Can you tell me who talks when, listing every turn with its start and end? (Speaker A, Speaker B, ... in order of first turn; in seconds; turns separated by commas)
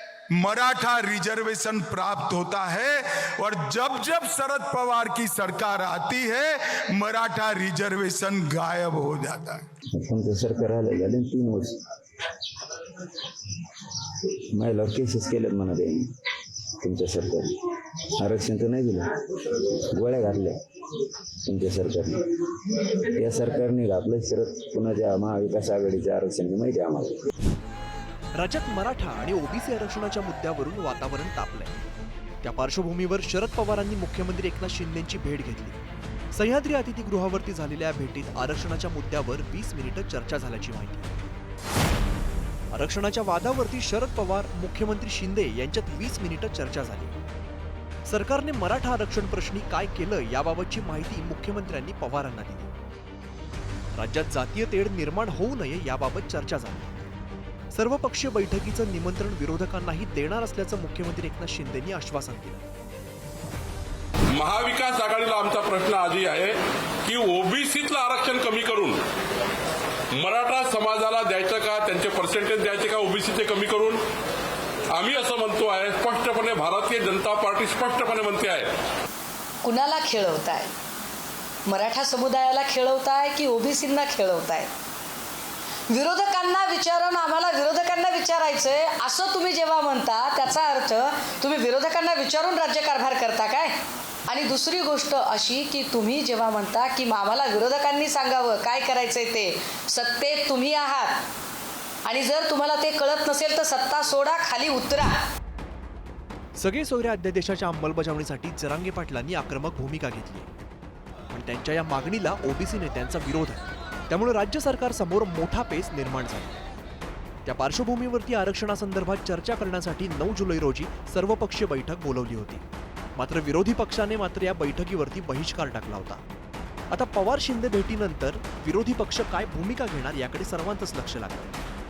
Speaker A: 0.3-9.6, Speaker B: 9.9-11.8, Speaker B: 14.5-16.1, Speaker B: 16.8-17.6, Speaker B: 18.2-20.6, Speaker B: 21.5-27.2, Speaker C: 28.4-31.8, Speaker C: 32.4-35.8, Speaker C: 36.3-41.1, Speaker C: 42.7-47.1, Speaker C: 48.1-52.7, Speaker C: 54.0-56.9, Speaker C: 57.7-62.6, Speaker D: 64.3-69.0, Speaker D: 70.2-74.0, Speaker D: 74.9-78.7, Speaker E: 79.6-80.7, Speaker E: 81.7-84.7, Speaker E: 85.9-93.8, Speaker E: 94.3-101.2, Speaker E: 102.0-105.2, Speaker C: 106.6-110.5, Speaker C: 111.3-116.6, Speaker C: 117.4-122.6, Speaker C: 123.2-126.2, Speaker C: 126.9-131.6